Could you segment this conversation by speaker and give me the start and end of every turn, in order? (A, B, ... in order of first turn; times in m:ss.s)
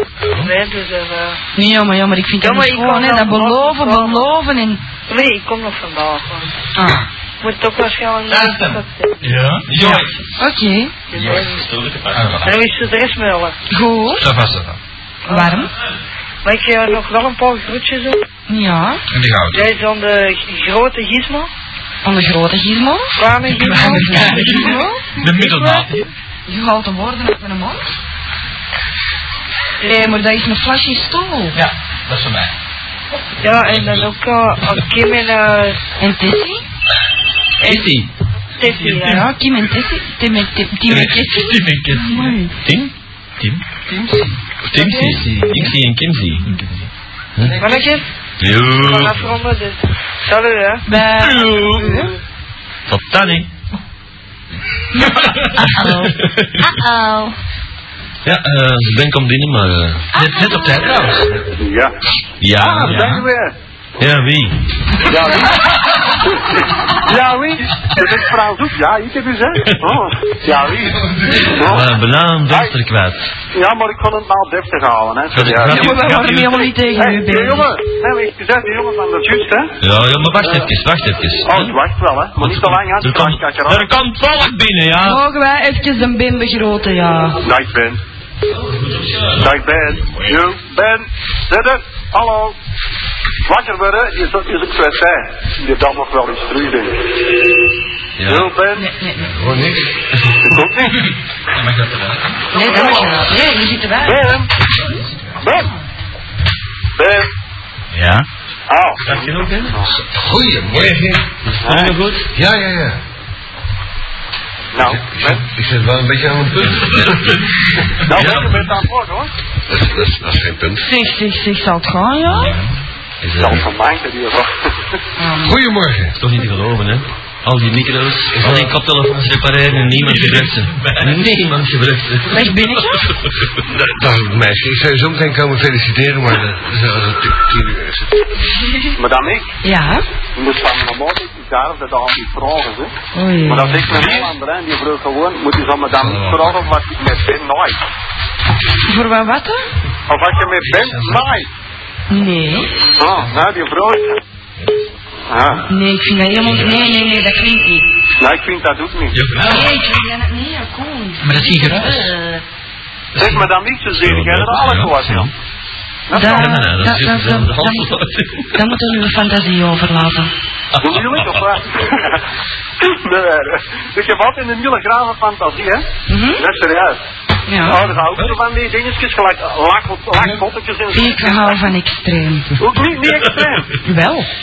0:00.2-0:00.5 A
0:00.4-0:01.4 B
0:01.5-0:04.8 C
0:02.4-0:04.3 B
0:05.1-0:06.5 B
0:06.7-0:07.0 C
0:07.4-0:09.2 B
0:08.3-0:08.7 D
0:08.4-0:10.1 A
0:09.7-0:10.1 D
0:10.4-0:10.9 C
0:11.1-0:11.6 B
0:11.1-0:11.5 A
0:11.3-0:12.3 D
0:12.1-0:12.5 A
0:12.4-0:13.5 B
0:13.7-0:14.3 C
0:14.2-0:14.8 A
0:15.2-0:15.6 B
0:15.3-0:15.7 C
0:16.4-0:18.2 B
0:18.5-0:19.0 C
0:19.1-0:19.7 A
0:19.5-0:21.5 B
0:22.0-0:25.0 C
0:23.2-0:24.2 B
0:23.5-0:26.1 A
0:25.2-0:25.8 B
0:26.5-0:27.9 C
0:29.8-0:31.6 C
0:31.5-0:32.5 A
0:33.4-0:35.8 B
0:36.0-0:36.6 C
0:37.6-0:38.1 D
0:38.6-0:39.2 B
0:38.6-0:39.2 A
0:38.9-0:42.5 C
0:40.9-0:42.3 A
0:42.6-0:42.9 D
0:43.4-0:44.4 A
0:44.6-0:46.5 D
0:44.8-0:45.7 C
0:45.0-0:45.7 A
0:46.4-0:46.9 A
0:47.6-0:48.0 B
0:48.4-0:49.3 D
0:48.6-0:50.8 B
0:50.9-0:52.1 C
0:51.0-0:52.1 D
0:52.9-0:53.5 D
0:55.0-0:57.3 C
0:55.9-0:56.8 D
0:58.2-1:01.1 D
1:00.2-1:00.8 C
1:00.2-1:01.3 A
1:01.6-1:01.9 E
1:02.4-1:03.2 D
1:02.5-1:03.5 E
1:02.8-1:03.2 A
1:04.0-1:05.0 D
1:05.0-1:11.9 E
1:09.7-1:10.0 D
1:11.4-1:13.3 D
1:13.5-1:19.7 E
1:15.3-1:16.7 D
1:15.6-1:17.7 C
1:19.8-1:21.8 D
1:20.4-1:20.7 E
1:21.4-1:23.9 E
1:22.3-1:25.2 D
1:25.0-1:27.4 C
1:27.4-1:28.0 E
1:28.5-1:29.4 D
1:29.4-1:32.6 E
1:33.4-1:37.2 E
1:38.2-1:38.5 D
1:38.2-1:38.9 E
1:38.7-1:39.3 C
1:39.3-1:39.9 F
1:40.4-1:41.0 E
1:41.5-1:42.4 A
1:42.5-1:44.4 C
1:42.6-1:43.1 E
1:44.0-1:44.5 E
1:45.4-1:45.7 E
1:47.0-1:47.3 E
1:47.9-1:48.2 A
1:48.7-1:49.9 E
1:49.0-1:49.8 D
1:50.0-1:51.3 F
1:51.5-1:52.3 D
1:51.6-1:52.0 E
1:52.3-1:53.0 F
1:54.7-1:55.4 E
1:55.1-1:57.4 F
1:58.0-1:59.3 E
1:58.1-1:58.6 D
1:59.7-2:00.8 F
2:00.8-2:02.6 C
2:02.3-2:02.6 D
2:02.3-2:02.7 A
2:03.2-2:03.7 D
2:03.4-2:04.7 E
2:05.2-2:05.6 C
2:05.4-2:06.2 F
2:06.2-2:12.6 D
2:08.3-2:08.7 F
2:09.9-2:11.2 A
2:12.3-2:13.1 C
2:13.6-2:18.3 F
2:19.0-2:19.5 E
2:19.6-2:20.0 C
2:20.4-2:22.9 E
2:23.1-2:23.9 C
2:23.4-2:27.8 E
2:23.9-2:24.2 A
2:25.9-2:26.6 A
2:28.9-2:29.6 C
2:30.1-2:31.5 E
2:30.6-2:31.2 A
2:32.1-2:32.7 C
2:33.0-2:34.2 E
2:35.3-2:35.6 E
2:35.7-2:37.9 C
2:38.2-2:39.2 E
2:39.1-2:39.7 A
2:39.4-2:42.4 C
2:41.2-2:42.1 A
2:43.2-2:45.3 E
2:43.9-2:45.3 D
2:46.1-2:46.6 E
2:46.1-2:47.9 C
2:46.2-2:48.6 D
2:48.5-2:50.3 C
2:50.8-2:51.4 D
2:50.8-2:52.2 E
2:52.8-2:57.0 E
2:56.1-2:56.4 C
2:57.5-2:57.8 C
2:57.6-3:01.5 E
3:00.9-3:02.5 C
3:02.6-3:03.8 E
3:03.8-3:04.3 C